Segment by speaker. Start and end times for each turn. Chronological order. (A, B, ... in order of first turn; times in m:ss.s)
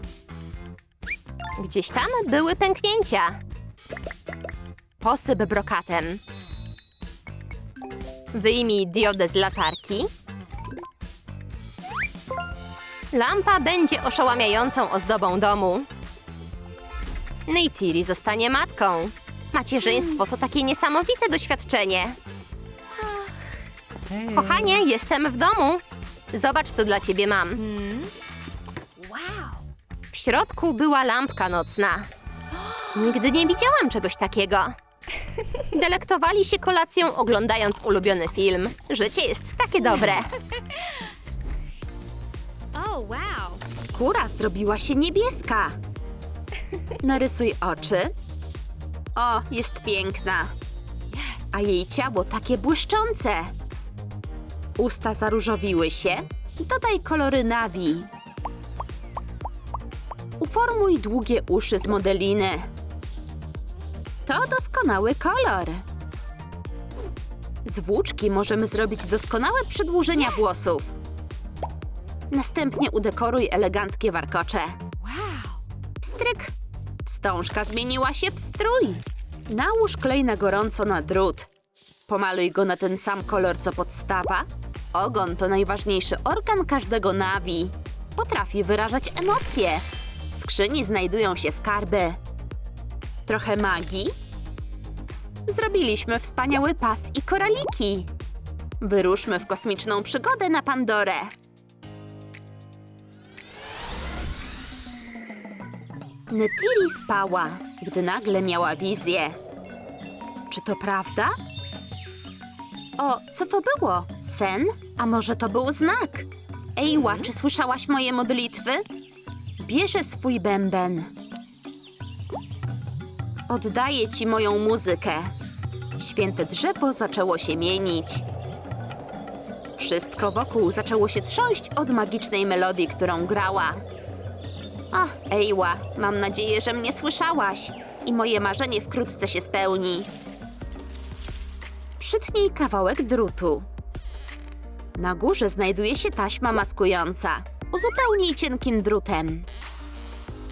0:01.6-0:03.4 A
0:05.0-0:06.2 A
0:08.3-0:10.1 A
0:13.1-0:15.9 A
0:17.4-0:22.2 A
0:23.0-0:23.3 B
0:24.3-0:27.6 A
0:27.6-0:28.1 B
0:29.0-0:29.5 B
0:30.1-0:32.1 A
0:32.9-0:34.8 A
0:35.7-0:40.3 A
0:42.7-0:43.6 B
0:43.8-0:45.7 A
0:47.0-0:48.1 A
0:49.2-0:50.5 A
0:51.1-0:51.4 B
0:51.5-0:53.5 A
0:54.8-0:58.1 A
1:00.4-1:02.7 A
1:04.2-1:05.8 A
1:07.6-1:10.9 A
1:12.3-1:14.8 A
1:15.0-1:15.6 B
1:16.0-1:16.5 A
1:17.0-1:21.5 A
1:22.1-1:32.2 A
1:33.3-1:34.1 A
1:35.5-1:38.1 A
1:38.8-1:41.3 A
1:46.3-1:49.4 A
1:50.5-1:51.3 A
1:53.0-1:58.8 A
1:59.6-2:01.1 A
2:03.5-2:05.3 A
2:06.0-2:08.2 A
2:09.8-2:13.8 A
2:14.9-2:20.1 A
2:22.0-2:23.6 A
2:25.0-2:29.4 A